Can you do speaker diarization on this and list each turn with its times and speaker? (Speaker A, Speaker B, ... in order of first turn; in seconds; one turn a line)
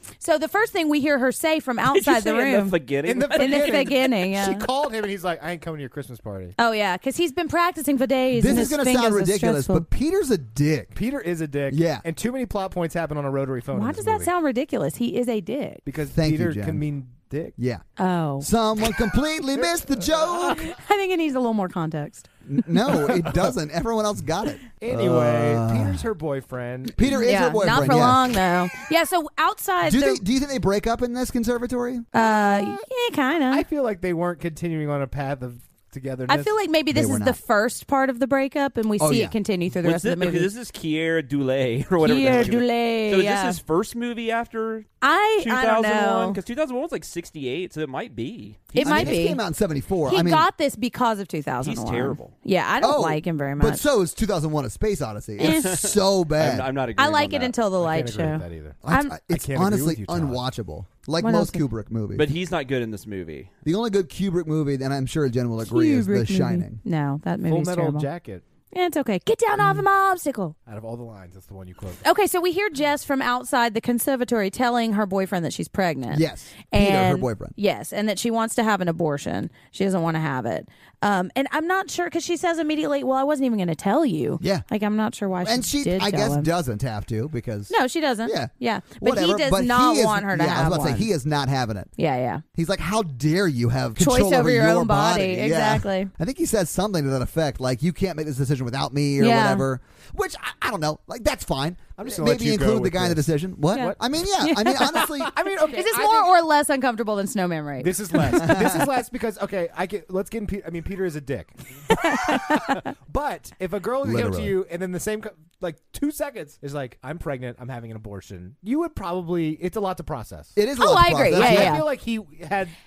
Speaker A: 0.2-2.8
Speaker B: 1.9-4.0
Speaker C: 3.0-6.5
Speaker A: 3.3-4.7
Speaker A: 6.6-9.9
Speaker D: 8.3-10.9
Speaker C: 10.9-14.3
Speaker D: 11.7-12.0
Speaker A: 13.7-15.8
Speaker C: 15.8-17.6
Speaker D: 16.1-16.9
Speaker D: 17.6-17.8
Speaker A: 18.0-18.5
Speaker D: 18.4-20.7
Speaker C: 19.6-20.7
Speaker A: 20.5-22.3
Speaker D: 22.5-26.1
Speaker C: 22.9-23.5
Speaker C: 24.8-27.3
Speaker D: 26.9-28.4
Speaker A: 27.1-30.2
Speaker D: 29.8-32.1
Speaker A: 32.1-33.6
Speaker C: 32.2-32.8
Speaker C: 33.5-36.6
Speaker A: 36.3-40.5
Speaker D: 36.9-37.4
Speaker D: 39.0-39.4
Speaker B: 39.8-49.3
Speaker A: 42.0-43.6
Speaker A: 45.0-46.4
Speaker A: 48.7-49.4
Speaker D: 48.8-50.5
Speaker A: 50.1-53.8
Speaker B: 51.6-52.3
Speaker D: 52.8-56.7
Speaker A: 55.4-55.7
Speaker B: 55.4-57.5
Speaker A: 57.0-59.1
Speaker C: 57.8-60.4
Speaker D: 58.8-62.3
Speaker A: 61.2-61.6
Speaker B: 62.1-63.5
Speaker D: 63.6-66.8
Speaker A: 65.6-68.1
Speaker C: 67.5-68.4
Speaker A: 68.7-70.5
Speaker C: 70.7-72.0
Speaker A: 72.0-86.5
Speaker D: 76.1-77.5
Speaker D: 84.4-84.7
Speaker D: 85.4-91.9
Speaker A: 87.7-91.1
Speaker A: 92.0-92.4
Speaker D: 92.5-105.3
Speaker A: 94.0-96.1
Speaker A: 99.2-99.7
Speaker C: 102.0-104.0
Speaker A: 103.7-108.5
Speaker C: 105.2-106.3
Speaker C: 107.8-120.6
Speaker D: 108.3-108.8
Speaker A: 111.9-112.8
Speaker D: 114.0-114.5
Speaker D: 120.6-121.8
Speaker A: 120.8-121.8
Speaker C: 121.3-122.8